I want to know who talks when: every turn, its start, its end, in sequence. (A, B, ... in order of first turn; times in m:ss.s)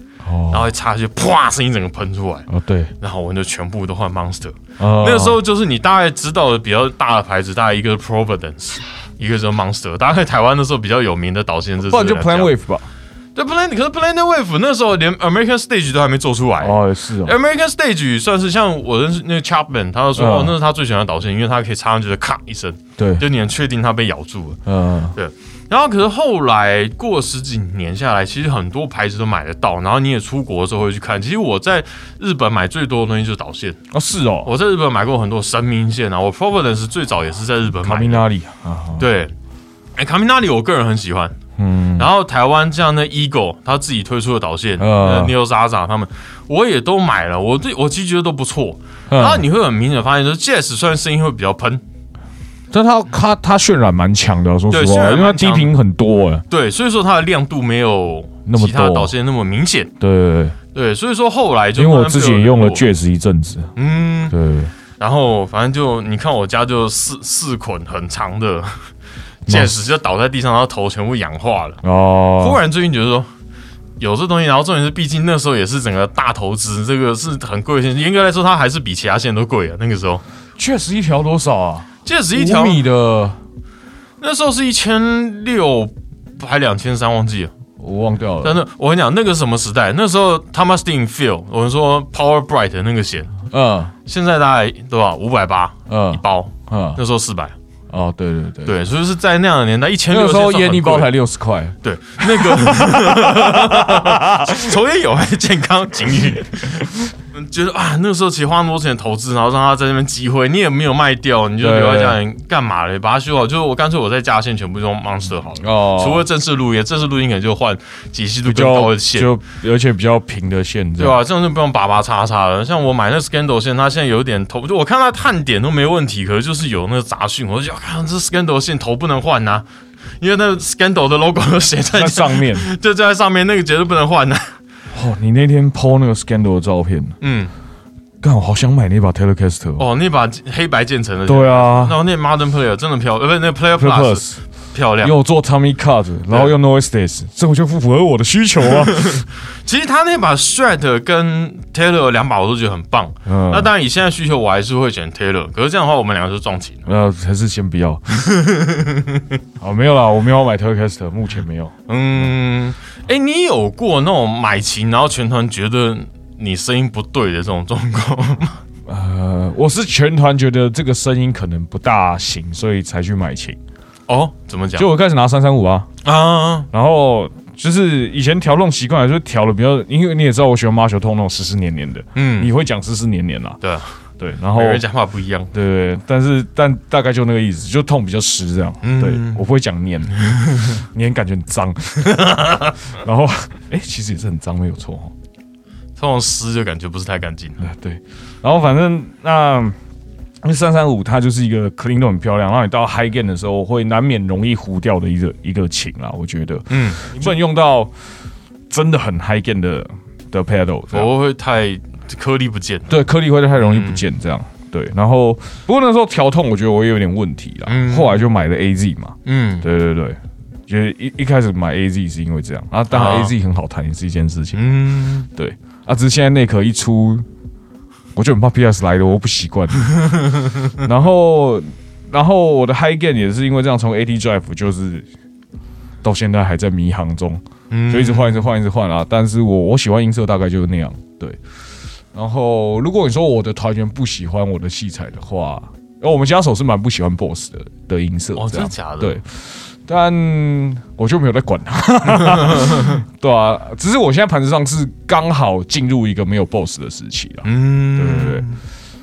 0:00.2-0:00.6 A
0:00.5-0:02.5 B
0:02.5-0:02.9 A
0:03.0-0:12.5 B
0:04.8-0:05.4 A
0:11.8-0:12.8 A
0:13.4-0:24.6 B
0:16.6-0:17.4 A
0:20.2-0:20.6 A
0:23.0-0:23.2 A
0:24.6-0:25.1 A
0:25.1-0:33.8 B
0:33.9-0:34.5 A
0:34.4-0:38.2 B
0:37.8-0:39.1 A
0:39.0-0:39.3 B
0:40.0-0:41.4 B
0:41.6-0:42.1 A
0:42.0-0:51.8 B
0:44.8-0:45.3 A
0:49.1-0:49.5 A
0:52.7-0:56.4 A
0:54.7-0:55.7 B
0:56.5-0:59.9 B
0:58.5-0:59.1 A
1:00.0-1:00.6 A
1:00.7-1:02.8 B
1:01.8-1:03.7 A
1:03.8-1:04.4 B
1:04.3-1:04.7 A
1:05.0-1:08.9 B
1:09.5-1:09.7 A
1:09.5-1:11.8 B
1:11.8-1:12.6 A
1:12.4-1:13.3 B
1:14.0-1:20.2 B
1:20.6-1:23.4 A
1:22.0-1:22.8 B
1:24.2-1:27.5 B
1:27.8-1:28.6 A
1:28.4-1:33.3 B
1:33.5-1:33.9 A
1:34.1-1:37.6 B
1:35.9-1:37.0 A
1:37.9-1:38.7 A
1:38.6-1:41.1 B
1:40.1-1:44.8 A
1:41.8-1:59.3 B
1:51.6-1:52.2 A
1:55.6-1:56.2 A
1:58.4-2:01.2 A
2:01.0-2:09.6 B
2:10.2-2:14.6 B
2:11.9-2:12.6 A
2:14.9-2:17.1 A
2:17.2-2:17.5 B
2:18.2-2:19.8 A
2:19.8-2:25.1 B
2:21.3-2:22.0 A
2:23.8-2:24.4 A
2:25.0-2:29.2 A
2:28.8-2:36.8 B
2:33.2-2:33.7 A
2:36.9-2:38.2 A
2:38.2-2:39.2 B
2:39.6-2:42.3 A
2:41.9-2:48.6 B
2:48.9-2:53.6 A
2:54.1-2:54.9 B
2:54.8-2:55.9 A
2:56.0-2:56.7 B
2:56.7-3:03.6 A
3:02.1-3:02.5 B
3:03.6-3:04.0 B
3:04.2-3:04.8 A
3:04.5-3:05.5 B
3:05.5-3:15.1 A
3:08.8-3:09.4 B
3:10.2-3:10.7 B
3:12.2-3:12.7 B
3:16.0-3:17.6 B
3:17.6-3:19.8 A
3:20.4-3:27.9 A
3:26.7-3:27.3 B
3:28.7-3:31.1 A
3:30.9-3:32.9 B
3:32.9-3:47.2 A
3:33.6-3:34.0 B
3:37.6-3:38.2 B
3:39.2-3:39.6 B
3:42.9-3:43.3 B
3:44.5-3:45.3 B
3:48.1-3:49.9 A
3:50.0-3:50.6 B
3:50.8-3:55.1 A
3:56.0-4:01.4 A
3:57.7-3:58.5 B
4:02.1-4:18.5 A
4:08.4-4:09.2 B
4:12.4-4:12.9 B
4:17.4-4:18.6 B